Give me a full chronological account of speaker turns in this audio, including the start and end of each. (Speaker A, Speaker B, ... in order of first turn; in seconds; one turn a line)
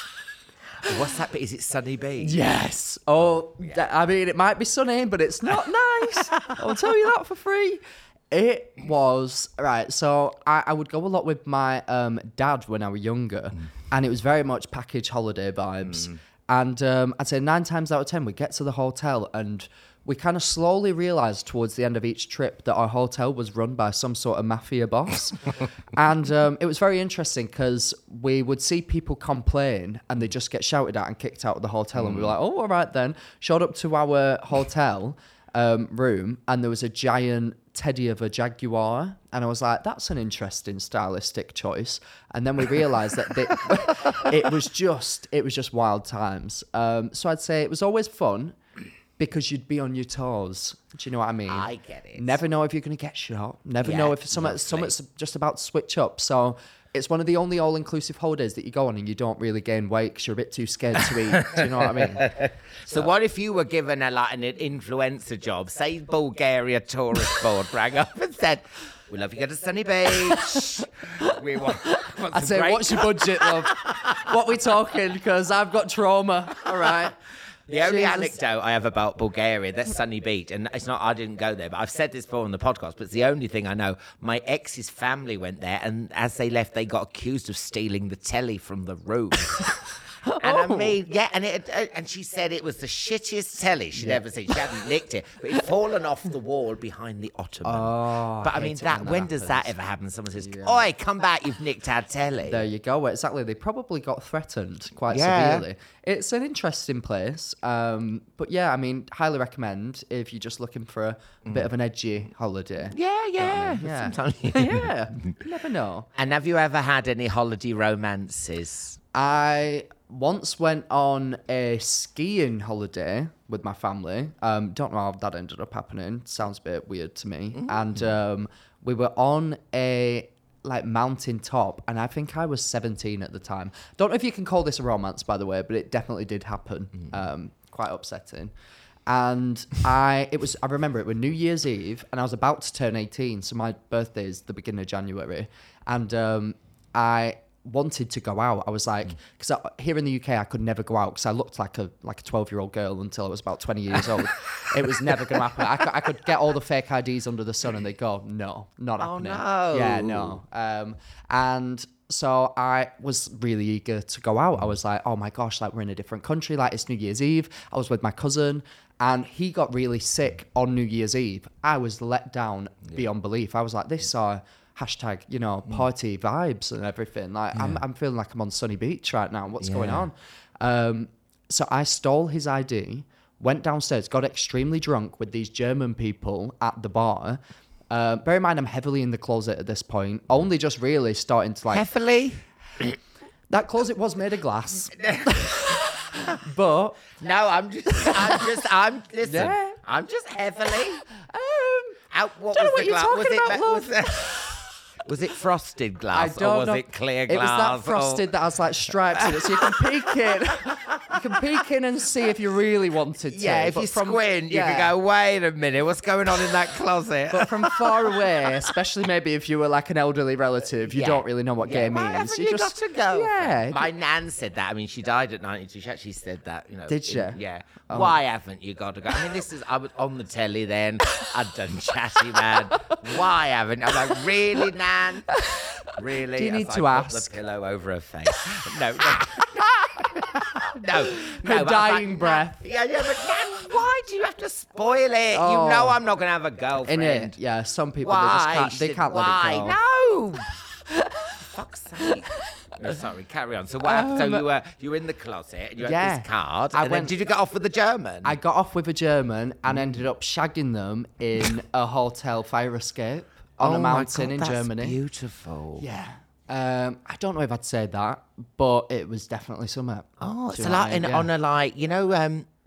Speaker A: 0.8-2.4
Speaker B: 2.2-48.6
Speaker A: 6.3-6.8
Speaker A: 31.9-32.3
Speaker B: 49.2-62.3
Speaker A: 51.5-52.4
Speaker A: 53.8-54.9
Speaker A: 61.4-74.7
Speaker B: 70.3-70.6
Speaker B: 71.9-77.2
Speaker A: 76.7-77.0
Speaker A: 77.7-89.7
Speaker B: 77.8-78.4
Speaker B: 90.2-91.0
Speaker A: 90.4-102.7
Speaker B: 94.0-94.2
Speaker B: 97.6-99.7
Speaker B: 100.4-100.8
Speaker B: 102.5-116.1
Speaker A: 105.1-105.6
Speaker A: 112.9-115.0
Speaker A: 116.1-119.0
Speaker B: 119.1-138.5
Speaker A: 127.5-128.0
Speaker B: 139.1-187.4
Speaker A: 159.0-160.4
Speaker A: 177.5-177.8
Speaker A: 179.6-180.1
Speaker B: 187.9-191.9
Speaker A: 191.7-192.9
Speaker B: 193.5-197.1
Speaker A: 194.9-196.4
Speaker A: 197.1-201.0
Speaker B: 198.0-198.5
Speaker B: 199.2-199.8
Speaker B: 201.2-204.1
Speaker A: 202.1-208.3
Speaker B: 206.1-214.9
Speaker A: 209.1-211.4
Speaker A: 213.3-218.7
Speaker B: 217.3-223.9
Speaker A: 220.9-247.3
Speaker B: 226.9-228.2
Speaker B: 235.3-237.3
Speaker B: 241.1-242.6
Speaker B: 245.3-246.0
Speaker B: 246.8-249.8
Speaker A: 248.0-250.5
Speaker A: 251.3-258.4
Speaker B: 253.8-254.4
Speaker B: 255.8-257.1
Speaker B: 258.2-265.0
Speaker A: 259.7-260.0
Speaker A: 263.6-265.8
Speaker B: 265.8-271.3
Speaker A: 270.2-272.5